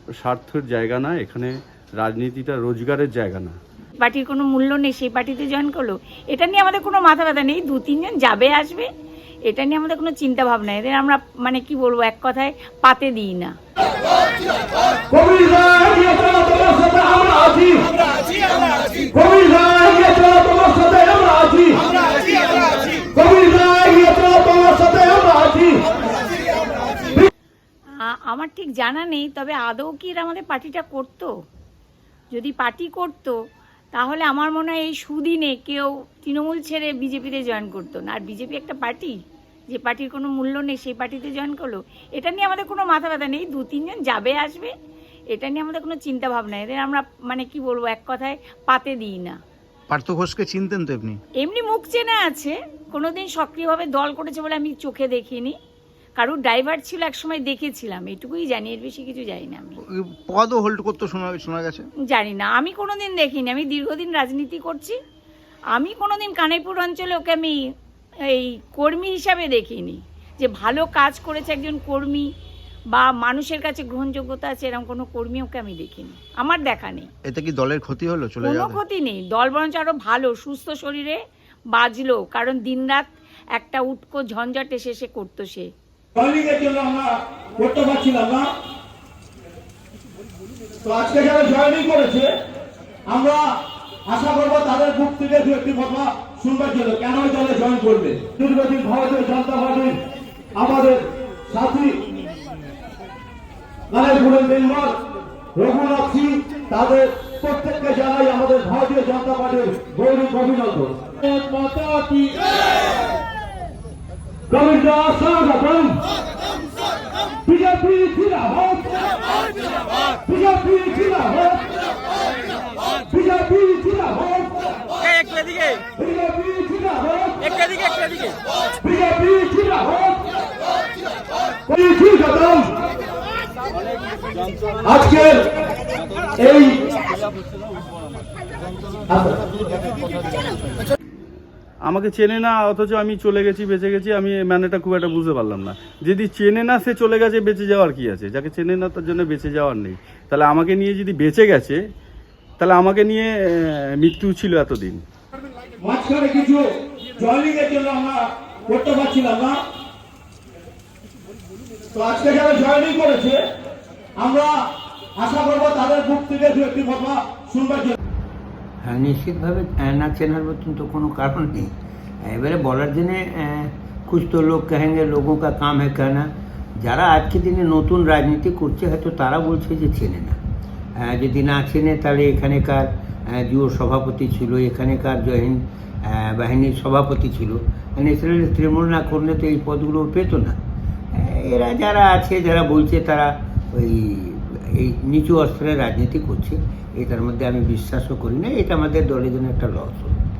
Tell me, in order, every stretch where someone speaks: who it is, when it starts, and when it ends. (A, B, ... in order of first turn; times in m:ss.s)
0:00.2-0:03.6 A
0:04.0-0:08.9 B
0:09.5-0:13.5 B
0:15.1-0:17.9 C
0:19.1-0:21.9 C
0:23.1-0:25.8 C
0:28.1-0:31.3 B
0:32.3-0:33.4 B
0:33.9-0:39.1 B
0:39.7-0:44.7 B
0:45.3-0:49.4 B
0:49.9-0:51.2 D
0:51.4-0:55.5 B
0:56.2-0:59.7 B
0:59.8-1:01.9 D
1:02.1-1:05.0 B
1:05.7-1:07.6 B
1:08.3-1:12.3 B
1:12.9-1:17.1 B
1:17.2-1:18.8 D
1:18.4-1:21.2 B
1:21.7-1:25.7 B
1:26.1-1:28.5 C
1:30.8-1:32.3 C
1:33.1-1:33.5 C
1:34.0-1:40.0 C
1:40.6-1:42.0 C
1:43.9-1:45.0 C
1:45.5-1:52.4 C
1:54.5-1:56.0 C
1:57.4-1:59.2 C
2:00.2-2:01.8 C
2:03.1-2:04.9 C
2:06.0-2:07.6 C
2:08.8-2:10.3 C
2:11.7-2:12.7 C
2:14.8-2:15.5 C
2:16.4-2:16.8 C
2:19.1-2:19.4 C
2:21.9-2:31.8 A
2:32.6-2:35.0 A
2:35.8-2:36.6 C
2:37.2-2:39.6 C
2:41.9-2:43.4 C
2:44.2-2:44.6 C
2:45.2-2:48.0 C
2:48.8-2:51.7 E
2:52.2-3:00.4 E
3:01.0-3:10.6 E
3:11.1-3:20.2 E